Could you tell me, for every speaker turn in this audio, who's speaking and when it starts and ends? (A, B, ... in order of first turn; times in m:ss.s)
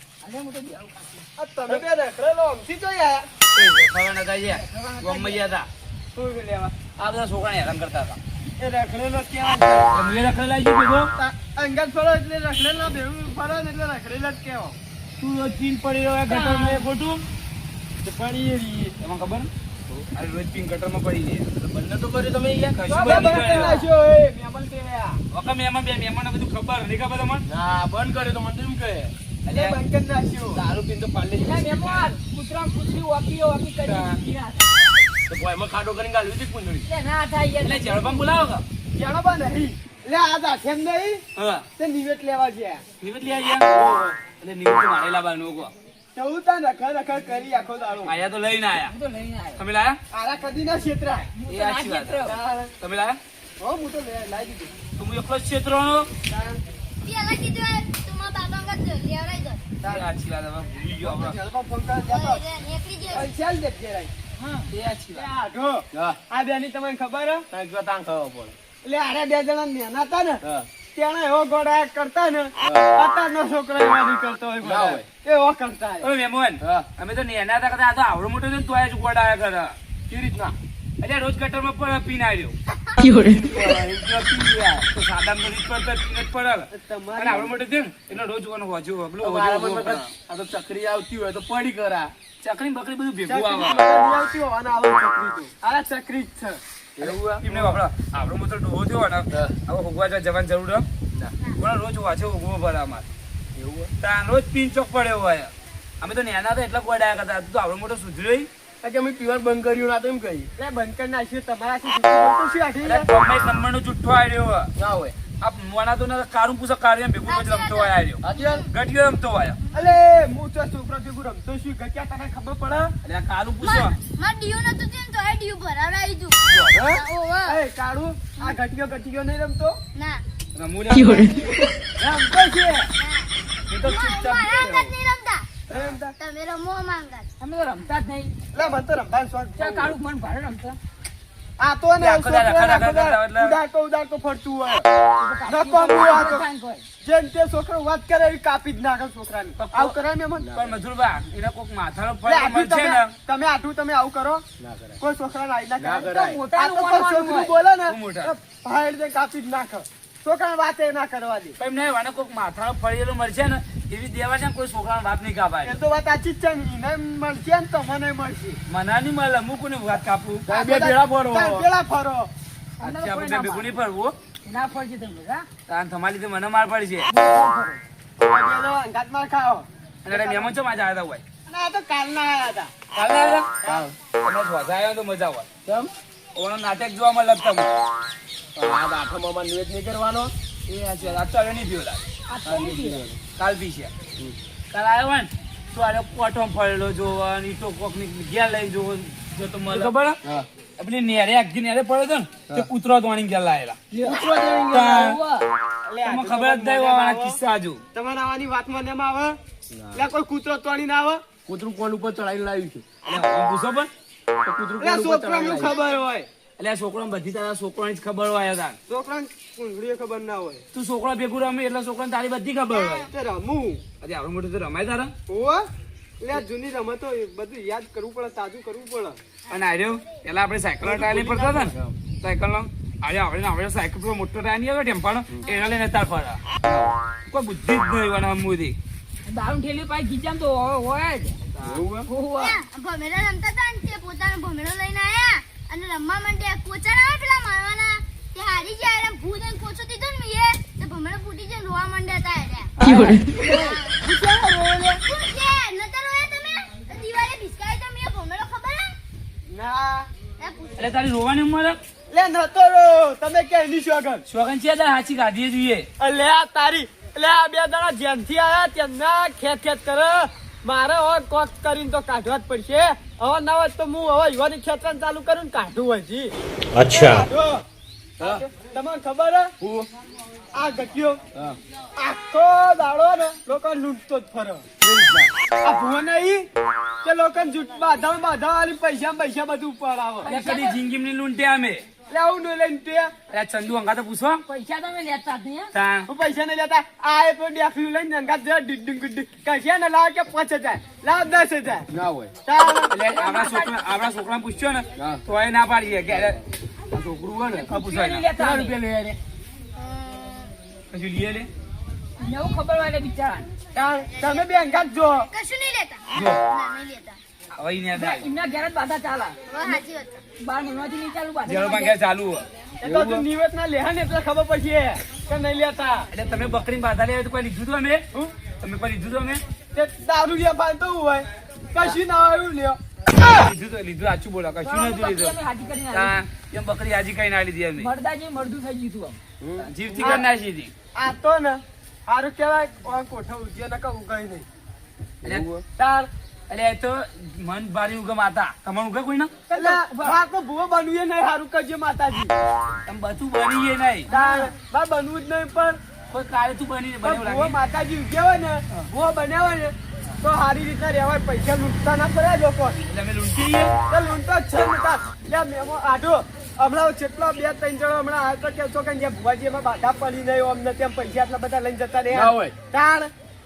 0:00.2-0:01.2 A
0:01.4-0:03.3 B
0:03.5-0:05.7 C
0:04.7-0:05.4 B
0:06.2-0:06.8 B
0:07.0-0:08.2 C
0:08.6-0:09.9 B
0:09.9-0:11.1 C
0:11.2-0:14.8 B
0:15.2-0:17.2 C
0:16.3-0:16.8 A
0:18.0-0:19.0 B
0:19.0-0:19.5 C
0:20.1-0:21.5 C
0:21.6-0:23.5 D
0:22.8-0:23.9 C
0:22.9-0:25.2 B
0:25.3-0:27.5 C
0:27.5-0:29.1 D
0:29.5-0:29.8 C
0:29.5-0:30.6 B
0:30.6-0:32.0 C
0:31.4-0:34.7 A
0:33.8-0:34.2 C
0:35.3-0:36.9 D
0:36.9-0:38.2 A
0:37.6-0:38.6 C
0:38.9-0:41.2 B
0:41.4-0:41.6 C
0:41.8-0:42.8 B
0:43.0-0:43.7 C
0:43.8-0:44.1 D
0:44.4-0:45.7 C
0:46.2-0:48.2 B
0:48.0-0:48.9 C
0:48.8-0:49.6 A
0:49.6-0:50.0 C
0:50.1-0:51.3 B
0:51.3-0:52.4 A
0:51.5-0:53.2 C
0:52.2-0:52.7 B
0:53.6-0:54.7 B
0:55.0-0:56.1 C
0:56.3-0:56.6 B
0:57.0-0:59.7 E
0:59.8-1:01.4 C
1:01.0-1:02.4 B
1:02.0-1:03.3 E
1:03.1-1:04.1 B
1:04.4-1:04.7 A
1:04.7-1:05.3 C
1:05.1-1:07.5 B
1:05.9-1:06.2 D
1:07.5-1:08.6 D
1:08.8-1:10.4 B
1:10.4-1:10.7 D
1:10.9-1:16.1 B
1:12.6-1:13.0 D
1:14.6-1:15.1 D
1:16.0-1:19.8 C
1:16.6-1:16.9 D
1:20.1-1:20.6 D
1:21.0-1:22.6 C
1:23.0-1:24.9 D
1:24.9-1:30.1 C
1:26.7-1:27.5 B
1:29.2-1:32.1 D
1:32.4-1:33.9 C
1:33.3-1:36.6 B
1:37.0-1:37.6 D
1:37.0-1:40.9 C
1:39.3-1:39.6 D
1:41.6-1:43.1 C
1:43.6-1:43.9 D
1:44.0-1:48.5 C
1:48.8-1:50.5 D
1:50.6-1:53.1 B
1:52.8-1:54.7 C
1:54.8-1:55.2 D
1:55.4-1:59.6 C
1:57.2-1:58.7 E
1:58.2-1:58.6 D
1:59.7-2:00.0 E
1:59.7-2:03.0 B
2:03.0-2:04.0 C
2:03.6-2:07.6 E
2:06.5-2:06.8 C
2:06.7-2:09.8 B
2:10.0-2:10.2 E
2:10.5-2:11.6 C
2:12.0-2:12.9 B
2:13.0-2:13.3 E
2:13.7-2:14.9 C
2:13.8-2:15.6 E
2:15.7-2:16.0 C
2:15.7-2:16.2 B
2:16.2-2:17.3 E
2:17.4-2:18.4 A
2:18.5-2:20.0 B
2:19.6-2:20.8 A
2:21.6-2:24.9 B
2:22.0-2:23.6 C
2:25.2-2:26.8 A
2:25.5-2:26.5 B
2:27.0-2:30.5 B
2:29.6-2:30.0 C
2:30.4-2:30.8 D
2:30.6-2:33.1 C
2:32.2-2:34.4 B
2:34.6-2:35.0 D
2:35.0-2:41.6 B
2:35.8-2:36.4 D
2:36.1-2:37.6 A
2:37.9-2:38.3 C
2:41.6-2:45.8 C
2:45.6-2:48.6 B
2:48.7-2:50.4 C
2:50.5-2:51.7 D
2:50.5-2:52.3 B
2:52.8-2:53.7 A
2:52.8-2:54.2 C
2:54.4-2:55.5 A
2:55.7-2:57.1 C
2:57.1-2:57.8 A
2:58.2-3:00.5 B
3:00.0-3:01.2 C
3:01.5-3:02.7 B
3:02.9-3:03.5 C
3:03.6-3:03.9 B
3:03.6-3:04.0 D
3:04.2-3:05.5 C
3:05.6-3:05.9 D
3:06.4-3:07.8 C
3:08.6-3:10.3 D
3:10.7-3:12.0 C
3:12.3-3:13.0 A
3:12.5-3:13.2 D
3:13.4-3:13.9 C
3:14.7-3:20.2 C
3:20.8-3:23.8 C
3:23.9-3:25.5 A
3:24.0-3:24.7 B
3:24.1-3:24.6 D
3:24.7-3:25.2 C
3:25.8-3:27.4 B
3:26.0-3:27.8 C
3:27.9-3:29.4 B
3:29.7-3:30.0 D
3:29.9-3:31.2 B
3:31.5-3:32.8 D
3:33.0-3:33.9 C
3:34.4-3:35.8 D
3:34.8-3:36.3 B
3:35.5-3:36.0 E
3:36.6-3:38.8 C
3:38.9-3:40.6 B
3:40.7-3:43.1 C
3:42.7-3:43.1 E
3:43.1-3:43.8 B
3:44.0-3:45.1 C
3:45.3-3:45.7 B
3:46.2-3:49.2 B
3:49.5-3:56.4 C
3:50.8-3:51.8 B
3:56.6-3:56.9 D
3:57.3-3:58.8 C
3:59.3-4:01.4 A
4:01.6-4:01.8 C
4:01.6-4:02.1 D
4:02.1-4:02.6 A
4:02.4-4:12.8 E
4:12.8-4:15.0 B
4:12.9-4:13.5 A
4:13.6-4:14.0 E
4:15.0-4:19.0 E
4:19.5-4:20.1 B
4:20.4-4:20.9 E
4:20.8-4:21.8 C
4:22.1-4:24.2 B
4:24.3-4:25.9 C
4:26.0-4:36.3 B
4:36.9-4:37.6 B
4:38.2-4:38.4 D
4:38.2-4:39.5 B
4:39.6-4:39.9 D
4:40.5-4:41.2 B
4:42.0-4:44.6 B
4:44.8-4:45.3 D
4:45.6-4:46.5 B
4:47.0-4:50.3 B
4:50.2-4:50.8 A
4:50.2-4:51.8 C
4:52.1-4:53.1 B
4:53.3-4:54.4 C
4:54.5-4:55.7 A
4:55.7-4:56.1 C
4:56.1-5:01.9 B
5:01.9-5:02.3 D
5:02.4-5:02.9 B
5:02.9-5:06.4 C
5:03.0-5:03.8 A
5:05.0-5:05.2 D
5:06.9-5:07.7 D
5:07.6-5:08.8 A
5:07.7-5:08.3 C
5:08.4-5:09.2 D
5:09.8-5:10.5 E
5:10.9-5:11.5 C
5:12.2-5:13.5 A
5:13.7-5:15.3 B
5:14.1-5:14.7 E
5:15.2-5:17.2 E
5:16.1-5:16.4 C
5:17.6-5:18.3 C
5:18.0-5:19.8 A
5:19.5-5:20.2 E
5:20.4-5:22.0 A
5:21.5-5:23.2 C
5:22.8-5:26.1 B
5:26.1-5:28.1 C
5:28.6-5:29.4 C
5:29.7-5:32.8 B
5:33.3-5:35.4 C
5:34.6-5:36.1 A
5:35.9-5:37.9 C
5:37.8-5:39.2 A
5:39.4-5:39.7 D
5:39.6-5:40.7 C
5:40.0-5:40.3 B
5:41.0-5:44.5 B
5:45.2-5:45.6 D
5:45.2-5:45.6 C
5:45.8-5:46.1 B
5:46.5-5:49.4 C
5:49.5-5:50.2 A
5:49.5-5:52.3 B
5:52.9-5:54.1 C
5:54.1-5:54.5 A
5:54.1-5:55.8 B
5:56.1-5:57.6 C
5:57.0-6:02.8 B
6:02.9-6:03.8 C
6:03.9-6:13.1 B
6:12.1-6:12.6 D